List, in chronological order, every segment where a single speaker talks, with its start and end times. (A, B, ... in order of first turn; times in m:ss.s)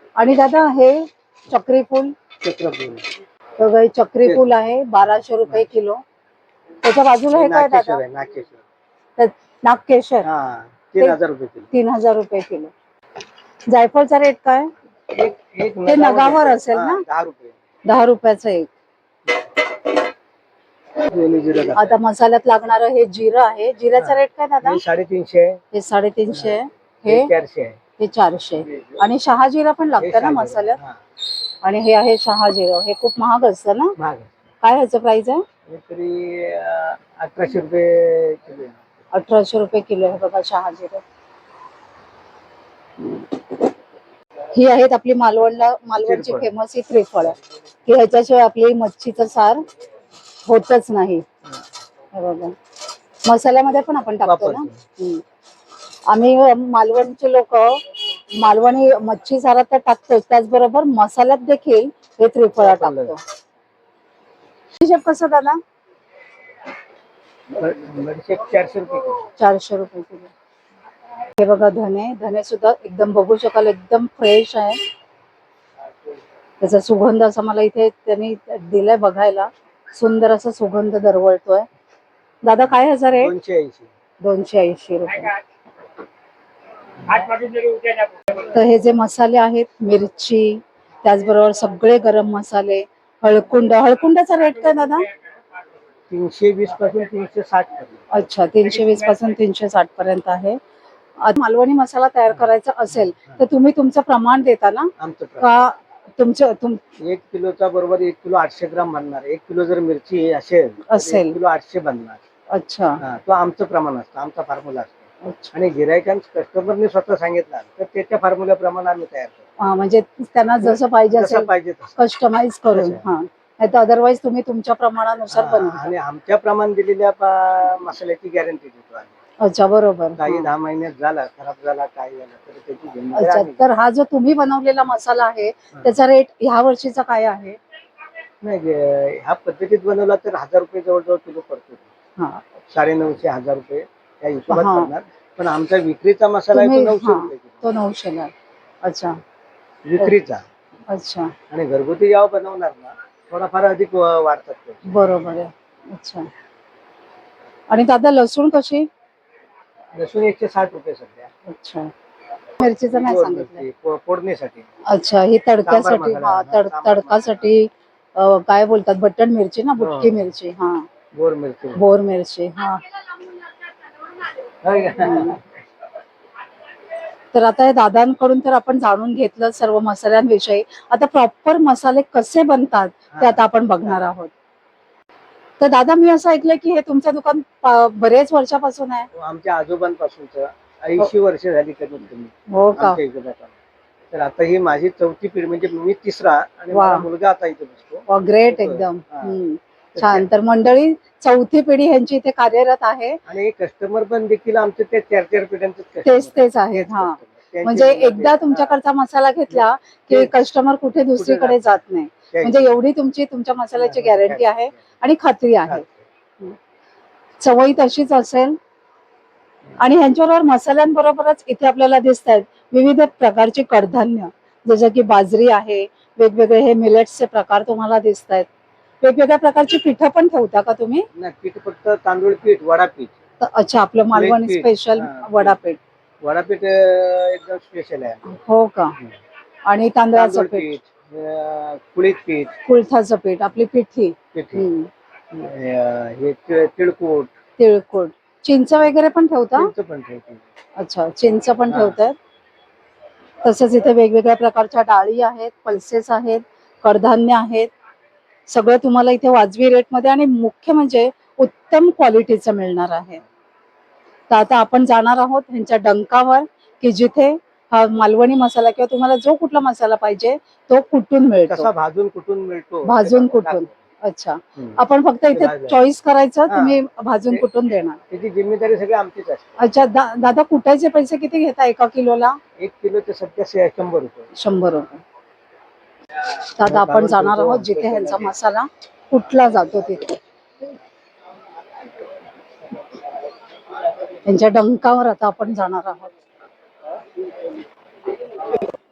0:00.2-0:02.1 A
0:02.4-0:03.0 B
0:03.6-0:06.0 A
0:04.2-0:04.6 B
0:06.8-0:08.0 A
0:07.3-0:08.6 B
0:09.2-0:10.2 A
0:10.2-0:11.7 B
0:11.7-0:12.7 A
0:13.7-0:14.7 A
0:15.1-0:17.5 B
0:15.8-0:17.0 A
0:17.8-0:18.7 A
0:21.0-0:22.0 B
0:21.7-0:24.8 A
0:24.0-0:25.6 B
0:25.7-0:27.3 A
0:26.3-0:27.8 B
0:28.0-0:30.8 A
0:30.0-0:31.0 B
0:31.6-0:33.9 A
0:34.0-0:34.3 B
0:34.6-0:35.4 A
0:35.7-0:38.8 B
0:39.1-0:41.0 A
0:44.5-0:49.6 A
0:46.0-0:46.5 B
0:50.4-0:51.2 A
0:52.1-0:52.5 A
0:53.2-0:55.2 A
0:54.2-0:54.8 B
0:56.1-0:57.8 A
0:58.4-1:03.2 A
1:02.5-1:03.1 B
1:04.8-1:05.6 A
1:07.5-1:09.3 B
1:09.4-1:10.3 A
1:11.4-1:14.8 A
1:16.6-1:21.6 A
1:22.4-1:23.3 A
1:23.1-1:23.9 B
1:24.2-1:25.4 A
1:28.3-1:35.1 A
1:36.1-1:38.0 B
1:38.1-1:40.6 A
1:41.2-1:46.8 A
1:45.0-1:45.6 B
1:47.0-1:52.2 B
1:50.9-1:51.4 A
1:52.5-1:53.0 A
1:53.0-1:55.0 B
1:55.2-1:55.5 A
1:55.5-1:59.4 B
1:59.6-2:05.8 A
2:00.6-2:02.0 B
2:02.7-2:03.0 B
2:05.3-2:09.1 B
2:09.4-2:10.5 A
2:10.2-2:13.6 B
2:13.1-2:17.6 A
2:18.4-2:21.9 B
2:22.2-2:22.4 A
2:22.7-2:27.6 B
2:24.5-2:24.9 A
2:26.5-2:28.3 A
2:28.8-2:29.2 A
2:29.8-2:30.4 B
2:30.9-2:31.3 A
2:31.5-2:34.8 B
2:34.9-2:36.3 A
2:37.7-2:38.8 A
2:39.9-2:41.3 B
2:41.4-2:41.9 A
2:42.6-2:43.6 A
2:42.9-2:44.6 B
2:44.9-2:50.9 A
2:45.6-2:47.4 B
2:49.8-2:50.2 B
2:51.1-2:51.8 B
2:51.8-2:52.8 A
2:54.6-2:55.4 B
2:55.0-2:55.4 A
2:57.3-3:04.3 A
3:03.1-3:03.4 B
3:05.6-3:09.1 A
3:09.1-3:13.5 B
3:12.5-3:13.0 A
3:14.1-3:19.4 B
3:16.7-3:17.1 A
3:18.1-3:23.2 A
3:19.9-3:20.3 B
3:23.3-3:28.7 B
3:26.0-3:35.8 A
3:29.5-3:30.3 B
3:31.2-3:31.8 B
3:32.3-3:32.8 B
3:33.8-3:34.7 B
3:35.7-3:36.0 B
3:37.4-3:38.6 A
3:39.8-3:48.5 A
3:49.0-3:51.0 A
3:51.2-3:53.1 B
3:53.4-3:55.8 A
3:54.1-3:55.6 B
3:56.2-3:58.4 B
3:58.2-3:59.0 A
3:59.7-4:00.7 A
4:00.1-4:02.5 B
4:02.6-4:04.9 A
4:04.3-4:04.7 B
4:05.3-4:07.3 B
4:07.6-4:09.7 A
4:09.6-4:10.4 B
4:10.8-4:12.1 A
4:11.7-4:12.0 B
4:13.4-4:17.7 A
4:18.5-4:23.2 A
4:24.3-4:31.7 A
4:31.4-4:33.7 B
4:32.8-4:38.0 A
4:35.3-4:35.8 B
4:36.5-4:37.4 B
4:38.1-4:39.6 B
4:39.6-4:42.4 A
4:42.6-4:44.3 B
4:44.3-4:45.0 A
4:46.6-4:50.2 A
4:46.6-4:48.3 B
4:54.2-4:56.1 A